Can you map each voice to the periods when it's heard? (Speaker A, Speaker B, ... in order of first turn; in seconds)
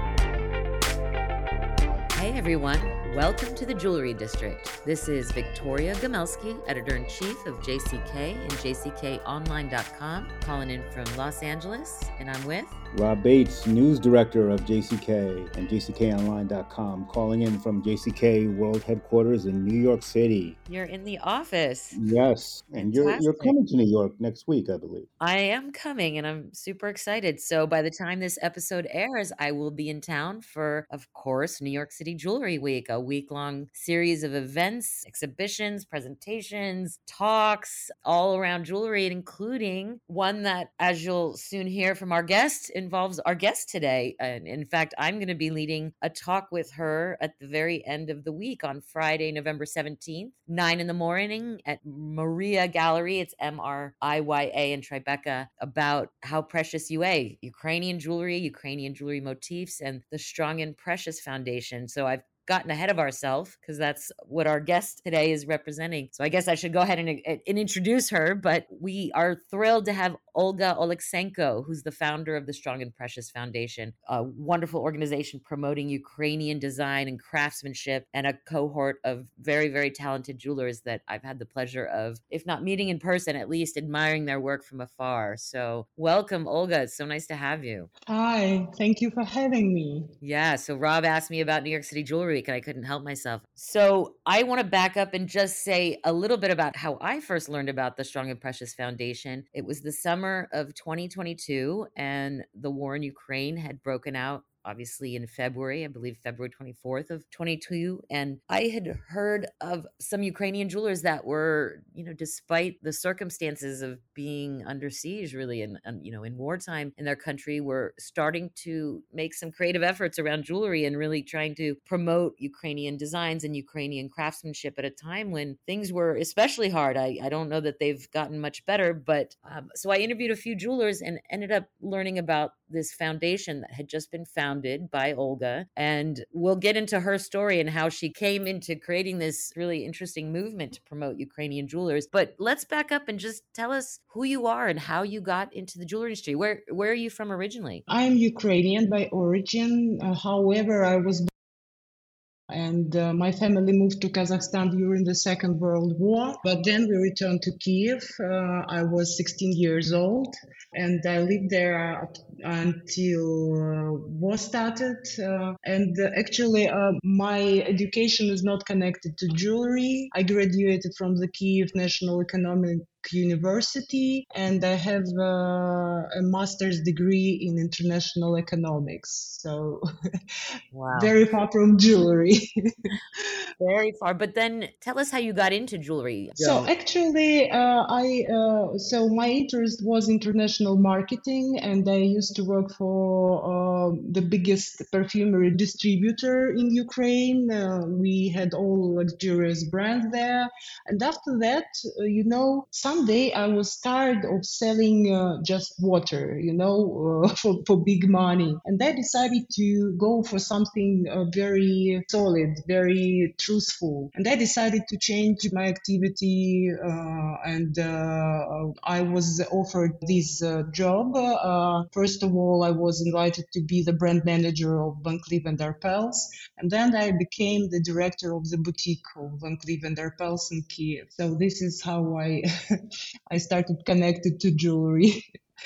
Speaker A: 2.1-12.8, 20.7-22.0, 22.9-23.6, 25.2-87.9, 90.2-147.8, 180.7-181.1, 183.6-186.7
Speaker B: 12.9-20.6, 21.9-25.1
Speaker C: 88.1-90.1, 147.9-151.3, 152.5-179.8, 180.9-183.3, 186.4-232.4, 233.3-235.2